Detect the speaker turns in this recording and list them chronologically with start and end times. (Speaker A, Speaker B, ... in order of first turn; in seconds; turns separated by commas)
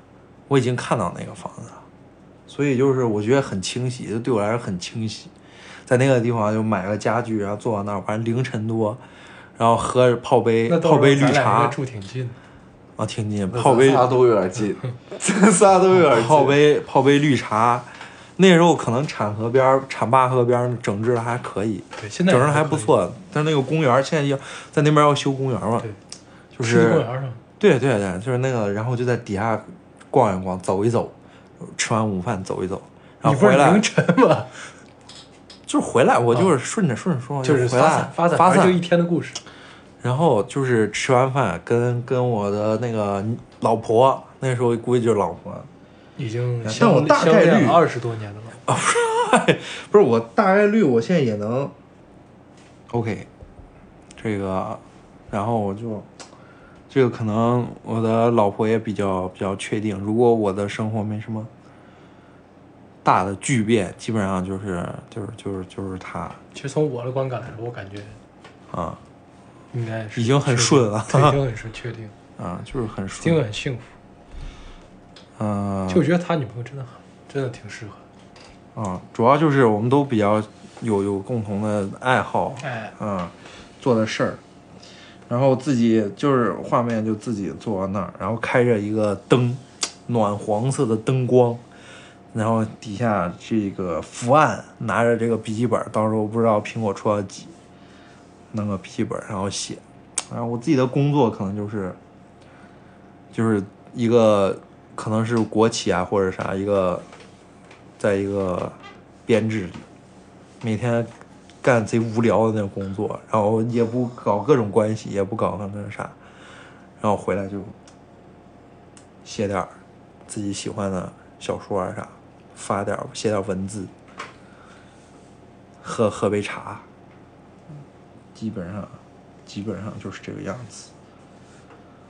Speaker A: 0.5-1.8, Speaker A: 2.5-5.3, Speaker A: 5.9-9.0, Speaker A: 9.6-11.8, Speaker B: 10.7-12.4, Speaker A: 13.0-14.2, Speaker C: 13.5-16.6, Speaker A: 15.9-25.9, Speaker B: 22.0-22.9, Speaker A: 26.5-27.1, Speaker B: 26.6-27.4, Speaker A: 27.6-33.9, Speaker B: 33.2-34.7, Speaker A: 35.7-38.8, Speaker B: 37.4-39.4, Speaker A: 40.0-45.7, Speaker B: 46.2-48.6, Speaker A: 46.6-47.8, Speaker A: 48.7-51.7, Speaker A: 52.9-53.3, Speaker A: 54.2-56.1, Speaker A: 56.9-61.5, Speaker A: 63.0-66.4, Speaker B: 66.5-68.2, Speaker A: 68.7-69.0, Speaker B: 69.7-72.1, Speaker A: 70.2-71.4, Speaker A: 72.4-73.4, Speaker B: 73.2-73.9, Speaker A: 75.4-76.1, Speaker B: 75.9-78.0, Speaker A: 78.8-84.4, Speaker B: 82.6-82.9, Speaker A: 85.3-91.6, Speaker A: 92.3-97.5, Speaker A: 98.5-102.0, Speaker A: 103.3-107.1, Speaker A: 108.0-109.9, Speaker A: 110.6-111.1, Speaker A: 111.6-116.2, Speaker A: 117.0-117.8, Speaker A: 119.2-119.7, Speaker A: 120.3-123.9, Speaker A: 125.8-126.8, Speaker A: 128.3-130.9